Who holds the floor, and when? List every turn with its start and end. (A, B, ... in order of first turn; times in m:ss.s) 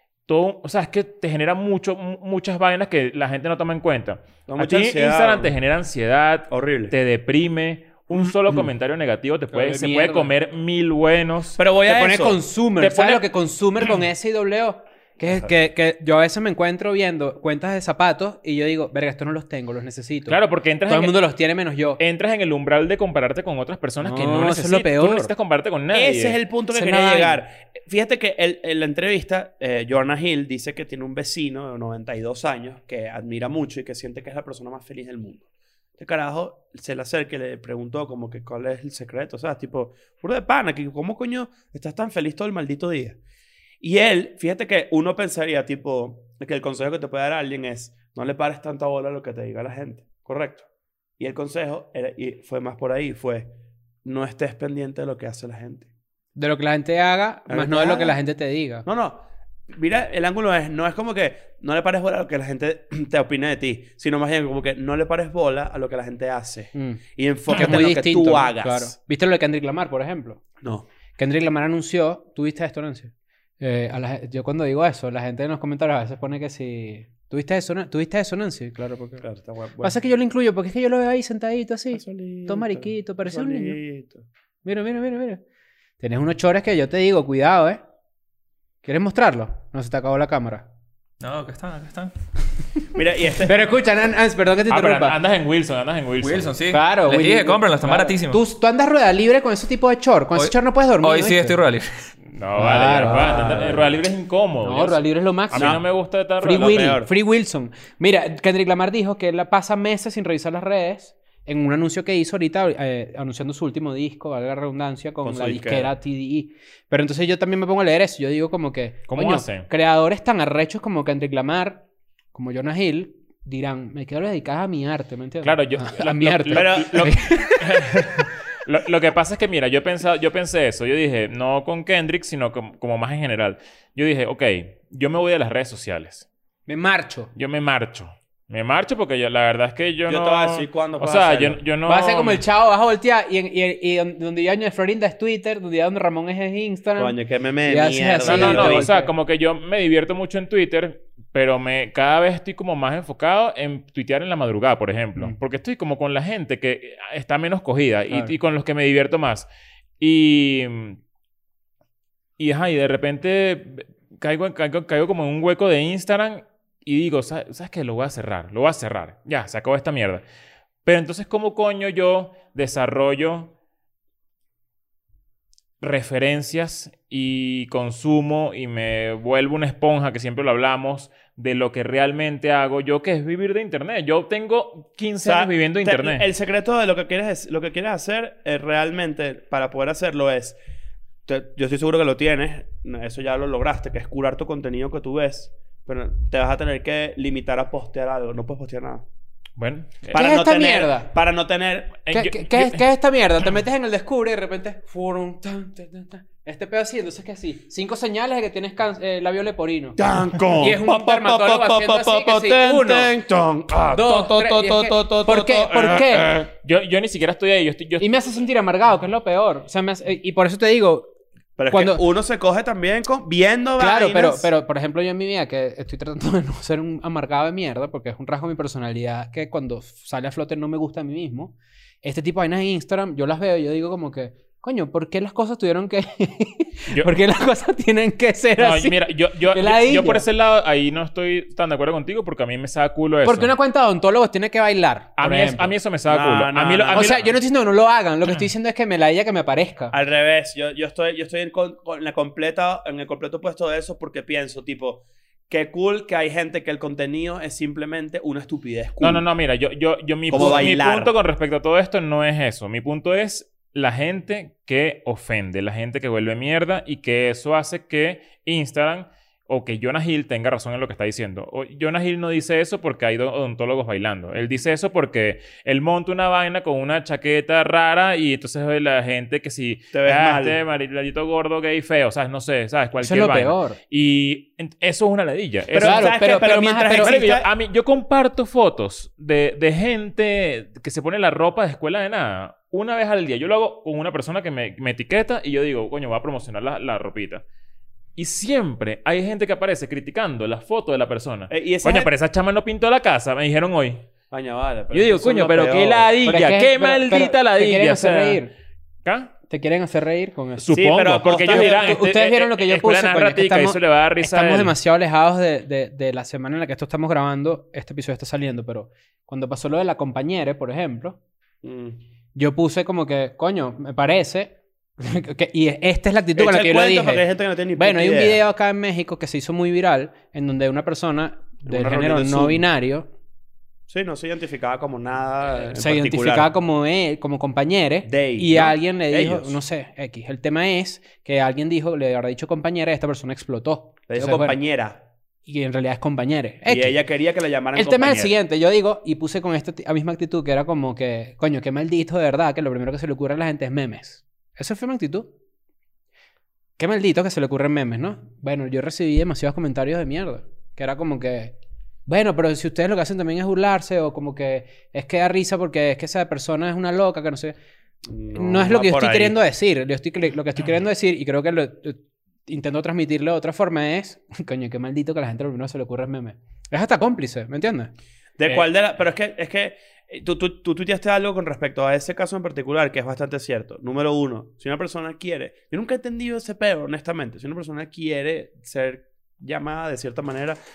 0:00.3-0:11.6 A
0:04.5-0:05.5 B
0:06.5-0:06.9 B
0:08.1-0:08.7 B
0:09.5-0:10.3 C
0:11.6-0:12.4 B
0:11.8-0:22.0 C
0:12.8-0:13.2 A
0:20.3-0:21.2 A
0:22.0-0:26.4 A
0:24.0-0:25.3 C
0:25.9-0:35.4 B
0:26.7-0:27.4 C
0:36.0-0:43.2 B
0:43.8-0:50.6 B
0:51.2-0:53.5 B
0:54.0-0:55.9 B
0:56.4-0:58.8 C
0:57.5-0:58.2 B
0:58.8-1:08.9 B
1:06.7-1:07.0 C
1:07.5-1:10.4 C
1:10.6-1:10.8 B
1:11.2-1:19.2 C
1:19.2-1:20.0 B
1:19.8-1:23.8 C
1:21.9-1:24.2 B
1:24.6-1:25.4 C
1:26.0-1:27.8 C
1:28.8-1:30.7 C
1:31.2-1:32.1 D
1:32.9-1:33.5 B
1:33.4-1:35.2 C
1:34.7-1:36.6 A
1:36.2-1:38.4 D
1:36.7-1:41.5 C
1:40.3-1:42.1 D
1:42.3-1:46.8 A
1:42.5-1:43.6 C
1:43.0-1:43.9 B
1:44.6-1:45.8 C
1:45.5-1:45.8 B
1:46.4-2:07.9 C
1:46.4-1:47.1 B
1:55.2-1:55.9 B
1:59.1-1:59.7 A
2:05.4-2:16.2 A
2:06.5-2:07.2 B
2:16.7-2:17.3 C
2:17.3-2:22.4 A
2:20.1-2:21.6 B
2:21.8-2:29.1 C
2:27.0-2:28.9 B
2:28.2-2:39.5 A
2:40.0-2:41.0 A
2:42.4-2:50.2 A
2:50.8-2:53.5 A
2:55.8-3:06.2 A
3:05.2-3:10.6 B
3:11.2-3:19.0 B
3:19.6-3:20.2 A
3:20.1-3:22.0 B
3:20.1-3:21.1 C
3:22.0-3:22.8 A
3:22.1-3:33.1 C
3:30.0-3:36.5 B
3:33.9-3:36.3 C
3:36.5-3:38.1 A
3:38.0-3:41.1 C
3:41.6-3:44.5 B
3:41.7-3:42.0 C
3:43.8-4:00.2 C
3:58.6-4:03.5 A
4:03.2-4:05.7 C
4:05.2-4:07.3 A
4:06.1-4:07.2 B
4:06.9-4:09.9 C
4:09.9-4:19.2 B
4:19.0-4:46.1 A
4:20.3-4:21.1 B
4:20.3-4:20.7 C
4:39.9-4:40.6 B
4:43.0-4:43.8 C
4:45.7-4:47.5 B
4:45.8-4:47.1 C
4:47.0-4:57.4 A
4:58.2-5:04.0 A
5:01.5-5:02.1 B
5:04.3-5:06.2 B
5:04.9-5:08.4 A
5:06.2-5:08.5 C
5:09.0-5:09.3 A
5:09.5-5:10.7 C
5:10.6-5:14.8 A
5:10.7-5:11.8 B
5:11.4-5:21.2 C
5:21.6-5:22.0 B
5:22.3-5:27.2 C
5:26.4-5:28.4 B
5:27.8-5:33.1 C
5:31.6-5:32.6 B
5:33.9-5:36.5 B
5:35.6-5:44.6 C
5:38.0-5:39.6 B
5:44.1-5:45.0 B
5:45.4-5:47.0 C
5:46.7-5:48.3 B
5:47.7-5:55.3 C
5:56.8-6:01.5 C
6:02.1-6:07.5 C
6:08.0-6:09.3 B
6:08.3-6:17.9 C
6:18.4-6:30.6 B